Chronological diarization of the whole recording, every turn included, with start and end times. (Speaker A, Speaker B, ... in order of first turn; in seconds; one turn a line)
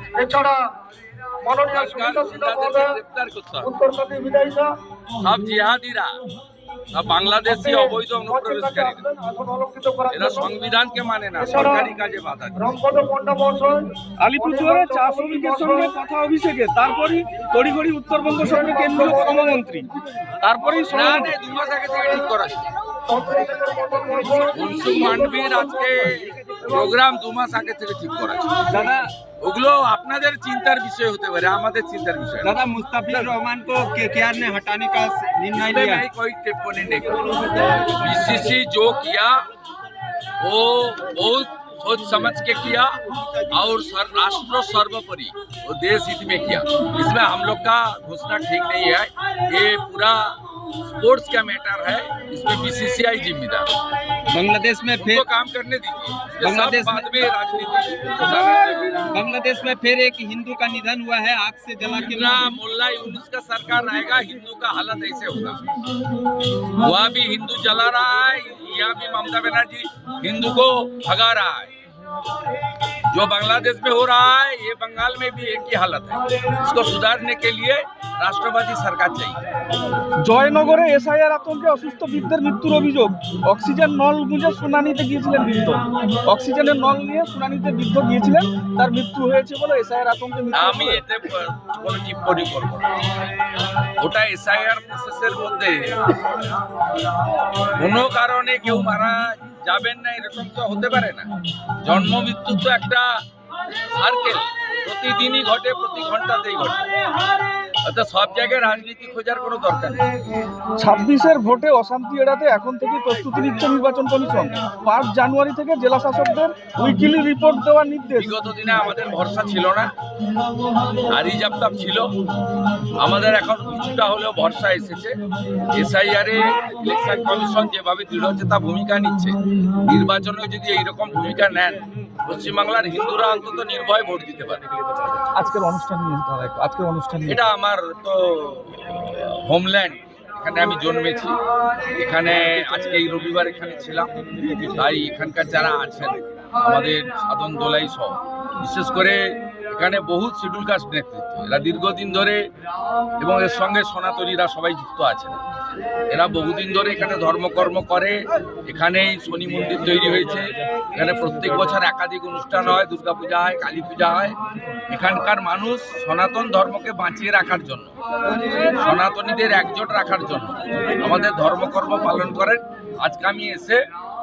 Speaker A: 0.2-0.6
Speaker A: 1.4-3.0
Speaker B: 1.7-3.7
Speaker A: 3.6-4.7
Speaker B: 5.2-6.1
Speaker B: 6.9-9.0
Speaker A: 7.4-10.5
Speaker B: 10.1-12.6
Speaker A: 11.4-11.9
Speaker A: 12.6-13.8
Speaker C: 14.2-19.9
Speaker A: 14.4-15.9
Speaker A: 18.4-19.5
Speaker C: 20.4-21.3
Speaker B: 20.9-22.7
Speaker A: 23.1-26.1
Speaker B: 24.5-32.5
Speaker D: 28.6-29.1
Speaker D: 32.4-36.0
Speaker B: 35.5-39.4
Speaker B: 40.4-42.9
Speaker B: 43.5-50.3
Speaker B: 50.9-53.7
Speaker D: 54.3-55.2
Speaker B: 55.0-59.2
Speaker D: 56.4-57.1
Speaker D: 59.1-62.5
Speaker B: 61.8-65.7
Speaker B: 66.6-71.7
Speaker B: 73.1-79.4
Speaker C: 80.2-91.0
Speaker B: 90.5-93.0
Speaker B: 94.0-96.3
Speaker B: 97.8-101.3
Speaker B: 101.8-103.1
Speaker B: 103.9-106.9
Speaker B: 107.8-110.0
Speaker C: 110.8-118.3
Speaker B: 118.2-119.9
Speaker B: 121.1-122.1
Speaker B: 123.0-125.1
Speaker B: 125.7-134.6
Speaker C: 135.3-137.4
Speaker B: 137.3-141.3
Speaker B: 141.9-144.1
Speaker B: 144.6-152.4
Speaker B: 153.2-155.4
Speaker B: 156.1-164.3
Speaker B: 164.9-167.9
Speaker B: 168.6-173.8